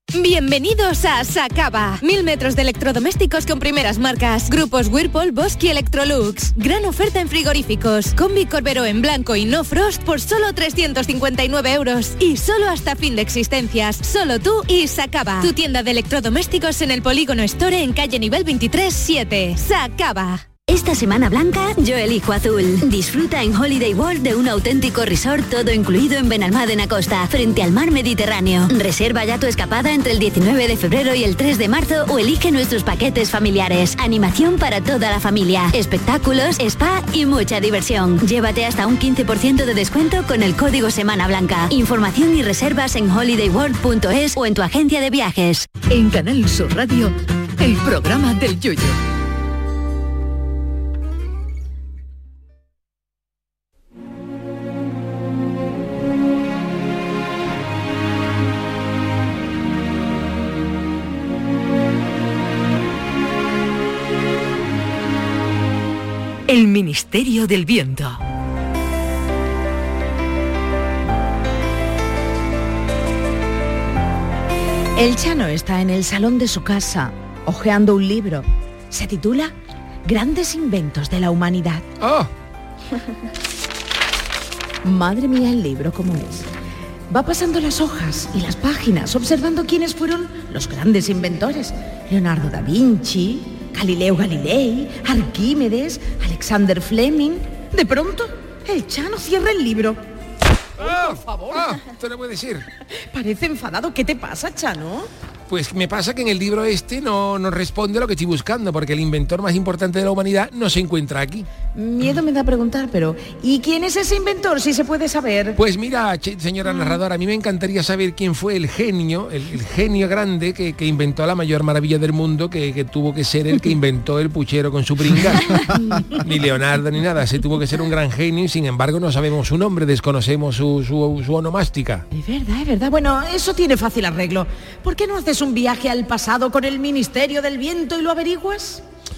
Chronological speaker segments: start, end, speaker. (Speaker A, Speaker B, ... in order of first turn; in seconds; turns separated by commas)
Speaker A: 0.1-20.4, Speaker B: 20.7-45.7, Speaker C: 45.8-49.0, Speaker D: 66.5-68.2, Speaker D: 75.0-79.5, Speaker D: 80.0-81.9, Speaker E: 82.0-82.3, Speaker D: 84.8-86.5, Speaker D: 87.1-100.0, Speaker D: 100.8-101.7, Speaker E: 100.8-102.7, Speaker D: 103.1-105.1, Speaker E: 105.5-111.5, Speaker D: 111.7-115.6, Speaker E: 115.6-132.0, Speaker D: 125.5-126.1, Speaker D: 132.1-138.8